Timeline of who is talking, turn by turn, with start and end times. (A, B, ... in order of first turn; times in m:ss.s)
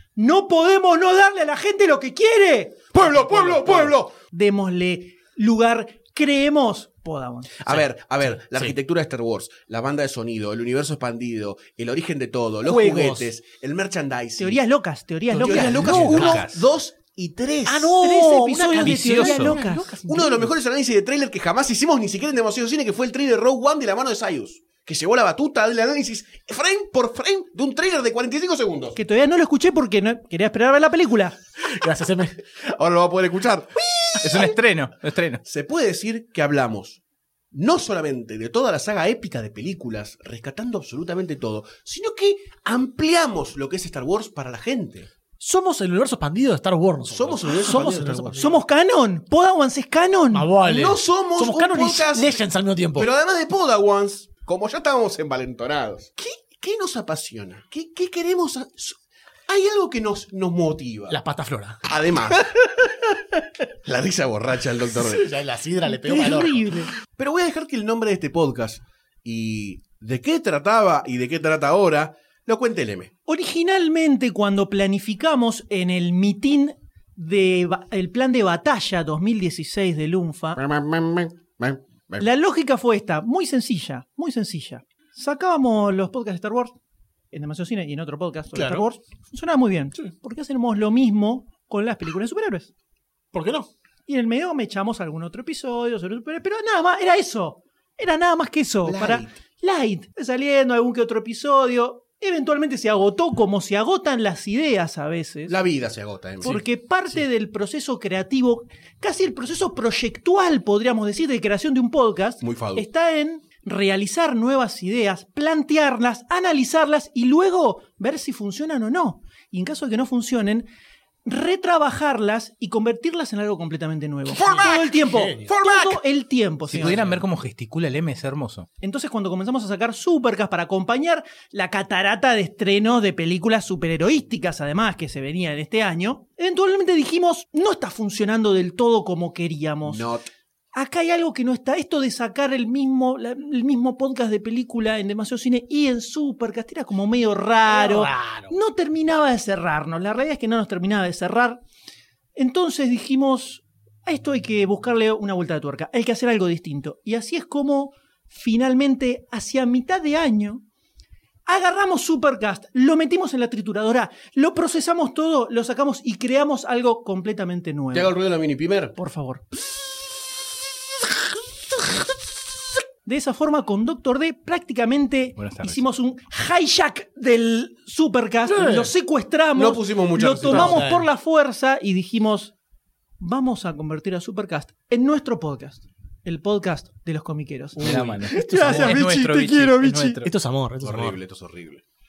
0:00.2-0:02.9 A
0:02.9-0:04.1 B
0:03.1-0:03.9 C
0:04.3-0:07.5 A
0:07.6-0:14.6 B
0:12.6-0:13.3 C
0:14.4-0:16.3 A
0:15.3-0:16.4 C
0:15.4-0:17.9 B
0:15.6-0:16.6 D
0:17.6-0:20.5 C
0:18.0-0:20.0 A
0:18.8-0:19.6 D
0:20.0-0:29.0 B
0:28.9-0:31.3 A
0:31.7-0:32.4 C
0:32.6-0:34.5 B
0:34.2-0:35.4 D
0:35.4-0:37.0 B
0:37.5-0:45.1 B
0:45.4-0:48.6 C
0:47.1-0:48.5 B
0:48.4-0:50.5 A
0:50.3-0:53.1 C
0:50.6-0:52.4 B
0:53.0-1:01.2 B
1:01.1-1:01.8 C
1:01.9-1:03.1 B
1:03.8-1:05.3 B
1:04.9-1:06.9 C
1:05.8-1:06.9 A
1:07.1-1:13.1 B
1:13.2-1:20.6 A
1:20.6-1:22.2 B
1:22.2-1:26.8 A
1:27.3-1:32.7 A
1:28.5-1:28.8 C
1:33.3-1:33.7 C
1:34.0-1:45.5 A
1:38.8-1:39.4 B
1:45.5-1:46.6 B
1:46.4-2:00.7 A
1:52.4-1:52.8 B
2:01.2-2:07.0 A
2:04.3-2:06.0 B
2:04.4-2:05.5 C
2:06.7-2:08.7 D
2:06.7-2:07.2 C
2:08.8-2:20.0 A
2:19.8-2:20.3 B
2:20.7-2:31.6 A
2:27.6-2:28.5 C
2:32.4-2:40.6 A
2:41.5-2:48.1 A
2:47.9-2:48.9 B
2:49.0-2:49.4 A
2:53.0-3:02.5 A
2:55.4-2:55.8 D
2:58.4-2:58.9 C
2:59.6-3:00.8 B
3:00.4-3:01.1 C
3:03.2-3:10.2 A
3:07.7-3:09.0 C
3:07.8-3:10.3 D
3:10.2-3:11.2 C
3:10.8-3:11.8 B